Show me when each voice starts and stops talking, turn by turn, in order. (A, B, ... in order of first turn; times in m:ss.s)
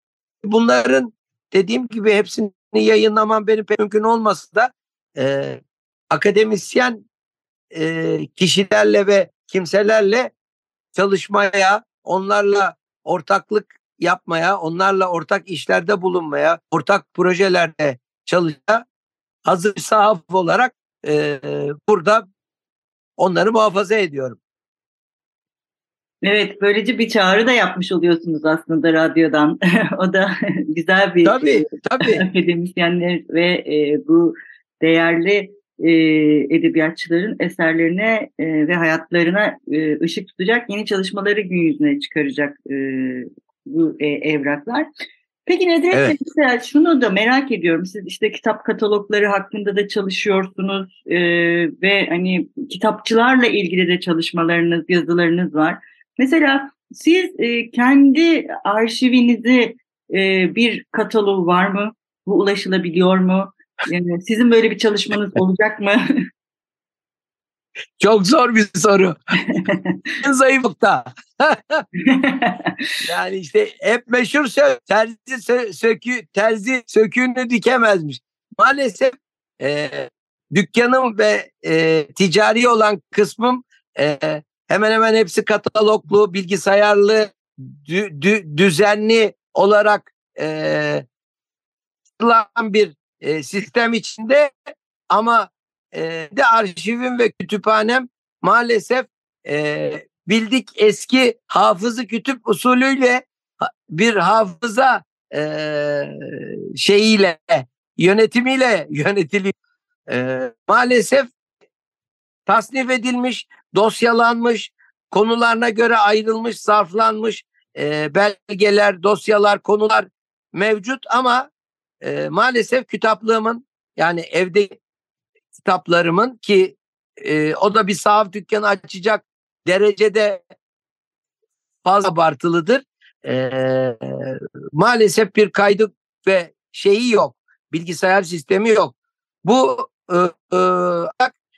0:00.4-0:07.1 A
0:07.7-0:10.3 A
0:11.0-0:18.8 A
0:19.4-0:22.3 A
0:23.2-0:24.4 A
0:26.2-0:44.9 B
0:31.2-0:32.2 A
0:45.5-1:06.0 B
1:08.0-1:09.2 A
1:09.5-1:10.0 B
1:10.2-1:11.8 A
1:12.0-1:12.7 B
1:13.0-1:31.0 A
1:32.2-1:34.5 A
1:35.1-1:49.5 A
1:50.1-1:51.3 A
1:52.5-2:01.5 A
2:02.0-2:04.8 A
2:05.6-2:10.4 A
2:11.8-2:21.4 A